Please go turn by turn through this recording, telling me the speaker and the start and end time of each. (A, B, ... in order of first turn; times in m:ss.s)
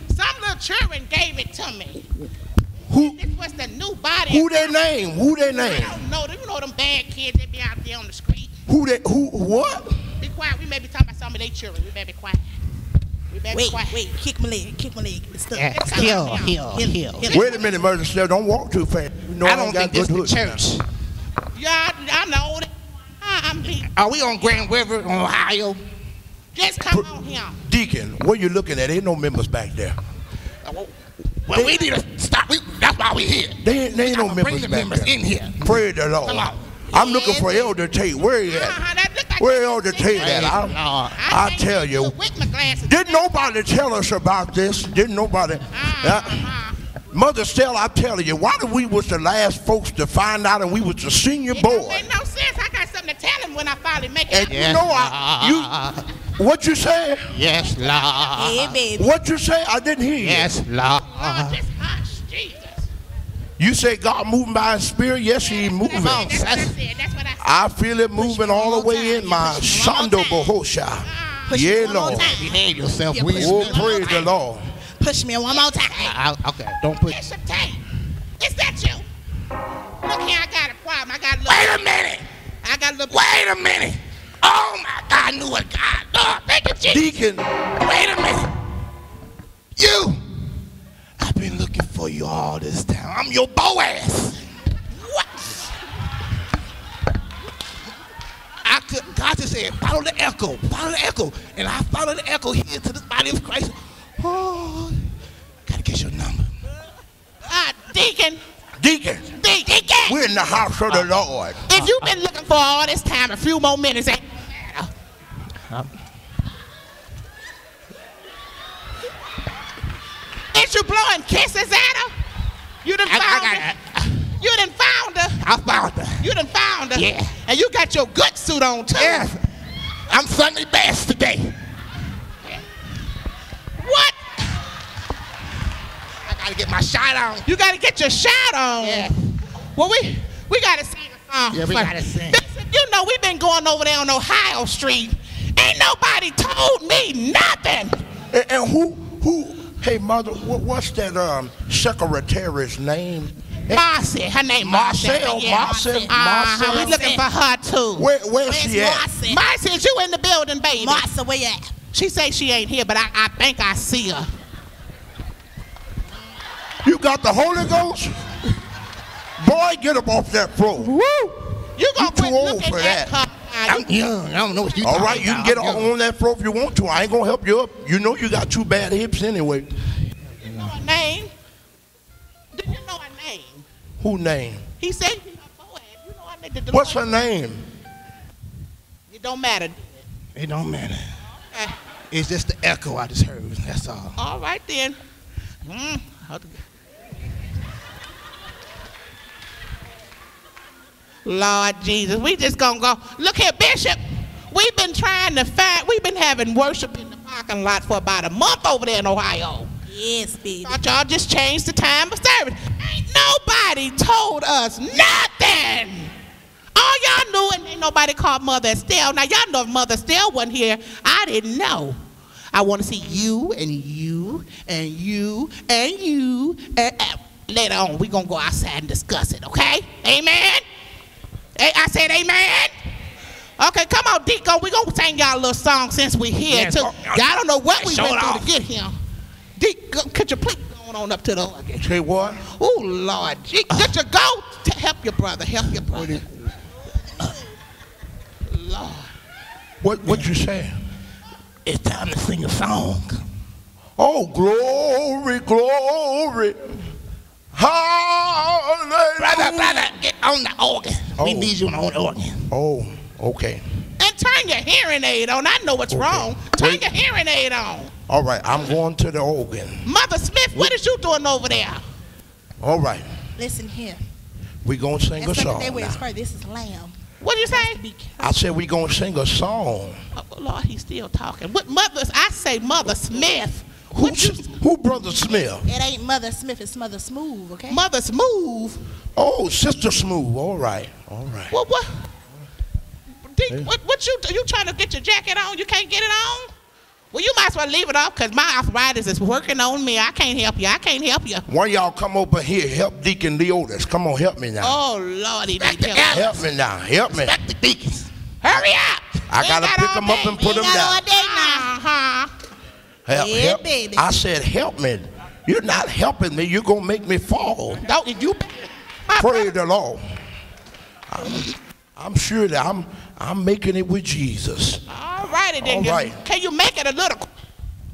0:00.1-0:02.1 A
0:02.9-0:03.2 B
0:02.9-0:04.8 A
0:04.3-0:06.0 B
0:05.6-0:08.5 A
0:08.7-0:10.0 B
0:10.2-0:12.4 A
0:13.3-0:14.1 A
0:13.5-0:17.5 C
0:15.5-0:17.3 D
0:15.7-0:17.8 A
0:17.3-0:20.6 B
0:19.4-0:20.8 D
0:21.5-0:23.9 A
0:23.9-0:25.8 D
0:26.5-0:27.6 A
0:27.6-0:30.0 B
0:30.6-0:30.9 D
0:31.5-0:36.8 D
0:31.5-0:31.9 B
0:33.6-0:38.8 B
0:36.9-0:37.2 A
0:38.5-0:40.5 A
0:39.4-0:42.2 B
0:40.1-0:41.2 D
0:41.2-0:43.5 A
0:42.8-0:46.5 B
0:45.7-0:46.8 A
0:47.1-0:52.1 B
0:51.5-0:54.7 A
0:54.3-0:55.7 B
0:54.5-0:56.0 D
0:56.3-0:57.3 B
0:57.3-0:58.8 D
0:57.6-0:58.7 A
0:58.4-0:59.2 C
0:59.0-1:00.5 B
1:00.2-1:01.6 D
1:01.0-1:02.9 A
1:03.6-1:06.3 B
1:05.4-1:07.6 A
1:06.0-1:06.8 D
1:07.4-1:12.3 B
1:08.2-1:10.2 C
1:10.1-1:10.5 A
1:11.0-1:12.3 A
1:11.5-1:12.6 C
1:12.1-1:14.2 D
1:13.1-1:14.3 C
1:13.2-1:14.7 B
1:13.7-1:14.3 A
1:15.0-1:16.1 C
1:15.5-1:16.2 A
1:16.0-1:17.2 D
1:17.0-1:17.8 A
1:18.4-1:19.1 A
1:20.0-1:21.9 A
1:21.5-1:22.3 D
1:22.6-1:23.4 A
1:23.1-1:27.1 D
1:26.9-1:27.5 B
1:27.8-1:28.5 D
1:29.8-1:30.2 D
1:31.2-1:34.4 D
1:34.9-1:35.5 A
1:38.6-1:45.1 D
1:45.7-1:46.5 D
1:47.5-1:48.4 A
1:48.8-1:49.3 B
1:49.3-1:50.1 A
1:50.0-1:51.6 B
1:51.7-1:54.9 A
1:51.8-1:52.1 D
2:00.5-2:02.1 A
2:02.8-2:05.4 A
2:03.1-2:04.1 D
2:05.4-2:06.2 D
2:06.2-2:09.3 A
2:07.0-2:07.3 D
2:08.9-2:09.4 D
2:10.1-2:11.6 D
2:13.8-2:14.6 A
2:16.3-2:17.4 D
2:17.4-2:19.1 A
2:18.8-2:19.2 D
2:19.7-2:28.0 A
2:21.5-2:22.4 D
2:28.3-2:33.8 B
2:33.7-2:38.1 A
2:34.6-2:37.0 B
2:35.6-2:37.2 C
2:38.0-2:39.1 B
2:38.4-2:39.4 C
2:39.2-2:41.1 A
2:40.8-2:41.7 C
2:41.9-2:44.3 A
2:46.8-2:48.4 B
2:49.4-2:50.9 B
2:51.0-2:51.3 D
2:51.8-2:53.9 A
2:52.0-2:53.1 B
2:53.7-2:55.9 D
2:54.8-2:59.7 B
3:00.4-3:00.7 D
3:00.4-3:01.3 A
3:02.5-3:03.6 A
3:04.0-3:04.6 B
3:04.8-3:07.2 A
3:06.7-3:07.6 B
3:09.1-3:10.0 A
3:10.4-3:11.1 D
3:12.1-3:14.2 D
3:14.2-3:15.0 A
3:15.6-3:16.6 A
3:21.2-3:29.7 A
3:29.9-3:30.8 C
3:30.6-3:36.1 A
3:36.8-3:42.0 A
3:42.5-3:50.6 A
3:51.6-3:52.7 A
3:53.6-3:59.0 A
3:56.5-3:58.5 D
3:59.6-4:01.9 A
4:01.8-4:02.4 B
4:02.4-4:06.2 A
4:05.9-4:06.4 D
4:08.5-4:09.1 A
4:09.8-4:10.8 B
4:11.6-4:13.2 D
4:14.0-4:16.8 B
4:17.5-4:19.9 B
4:19.2-4:22.5 D
4:21.2-4:21.5 B
4:22.5-4:23.6 B
4:24.0-4:27.9 A
4:25.9-4:26.9 B
4:28.1-4:29.9 B
4:29.8-4:31.8 A
4:32.6-4:33.1 B
4:33.4-4:34.0 C
4:34.6-4:36.0 B
4:35.2-4:36.9 C
4:37.2-4:37.8 A
4:37.5-4:38.3 C
4:38.2-4:40.0 B
4:40.2-4:44.5 A
4:43.9-4:45.7 B
4:45.6-4:47.8 C
4:47.7-4:48.8 A
4:49.2-4:51.5 B
4:51.5-4:52.1 A
4:53.3-4:56.5 A
4:57.1-5:01.4 A
5:01.5-5:04.8 B
5:04.6-5:06.3 A
5:05.6-5:06.4 D
5:06.1-5:07.4 B
5:07.1-5:08.1 D
5:08.4-5:12.3 A
5:09.3-5:11.0 B
5:10.4-5:11.7 C
5:13.1-5:17.8 B
5:13.1-5:14.1 C
5:17.8-5:19.5 A
5:19.2-5:20.0 B
5:21.1-5:24.8 B
5:24.9-5:27.3 A
5:25.6-5:26.2 B